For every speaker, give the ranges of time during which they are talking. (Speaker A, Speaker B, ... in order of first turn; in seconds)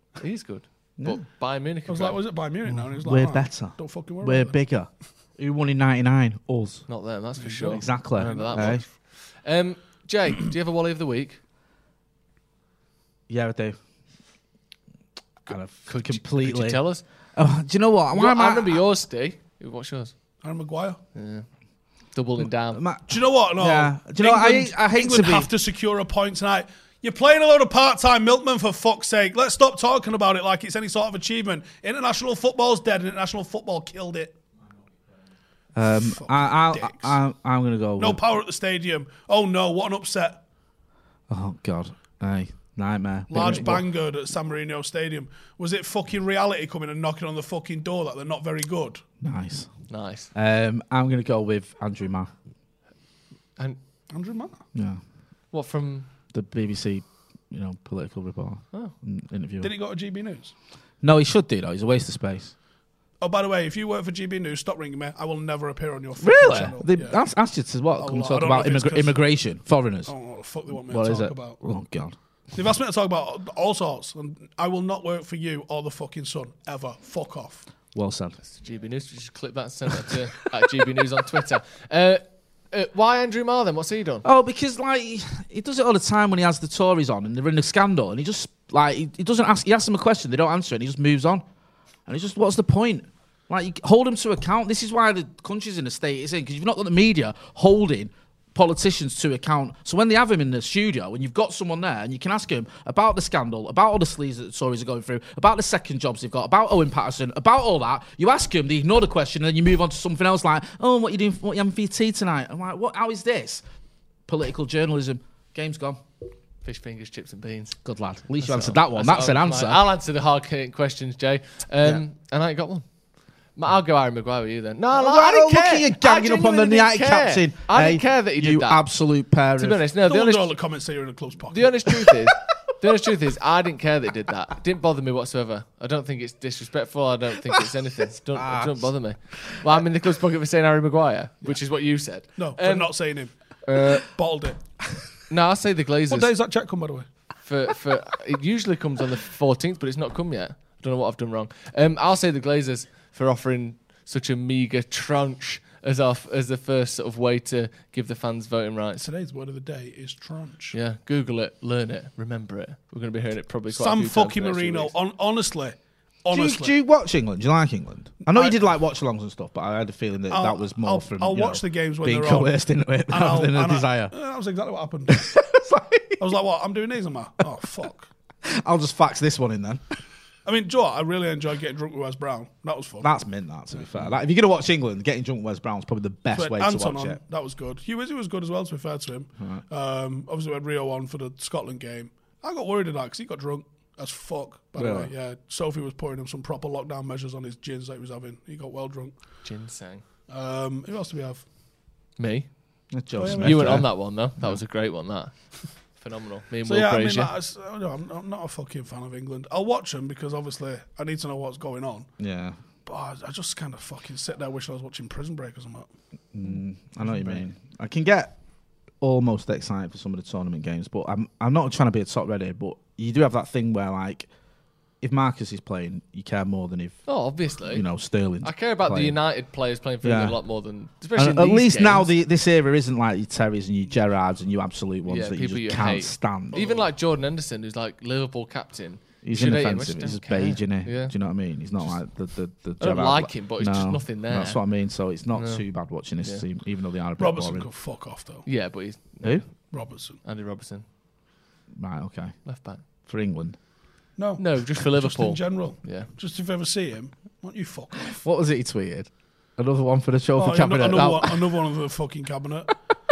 Speaker A: 0.2-2.2, 6.9-11.4, 15.5-17.1, 18.1-20.1, 21.1-21.5, 22.1-22.8, 49.9-50.3, 55.5-56.1, 78.4-84.2, 116.6-117.8, 118.4-122.9, 123.5-128.9, 129.6-130.5, 131.5-142.9, 143.7-144.1, 145.3-146.3, 147.4-159.0, 160.7-164.9, 199.4-200.0, 202.2-202.6, 203.3-207.3, 227.1-227.8, 228.4-232.1, 235.1-241.2, 242.8-244.6, 245.3-245.6, 248.5-249.7, 250.2-250.9, 252.4-252.8, 254.4-256.1
Speaker B: 1.9-4.6, 7.5-8.8, 20.4-21.0, 23.1-34.4, 35.8-37.2, 38.0-40.4, 43.3-49.0, 54.1-54.6, 59.6-60.5, 63.2-67.2, 68.0-69.2, 70.1-71.6, 72.5-77.7, 130.1-132.2, 142.4-143.3, 144.0-144.6, 146.1-147.1, 159.0-160.8, 163.7-166.8, 168.3-168.6, 170.3-175.4, 176.2-178.1, 180.5-183.1, 186.3-199.1, 200.3-201.4, 203.2-203.9, 206.7-212.1, 212.9-215.9, 217.0-217.4, 236.5-236.9, 247.2-248.5, 249.7-250.2, 254.2-258.2, 260.4-262.8
Speaker C: 2.7-6.9, 7.6-8.8, 13.3-13.8, 15.5-16.8, 17.4-18.8, 22.7-25.5, 35.8-38.2, 41.3-43.9, 49.2-52.3, 54.7-55.0, 56.3-59.7, 61.0-62.5, 66.2-70.1, 70.7-72.2, 77.9-78.4, 84.2-91.4, 92.1-113.6, 114.3-116.0, 117.8-119.8, 124.9-129.8, 138.3-139.5, 166.3-174.1, 175.1-176.2, 178.4-179.8, 183.0-187.2, 194.8-195.1, 202.9-204.6, 212.2-212.6, 216.3-218.3, 219.0-224.3, 225.0-227.1, 227.7-229.2, 230.0-230.4, 231.2-236.6, 239.2-247.7, 251.7-252.4, 253.1-253.6, 258.2-261.5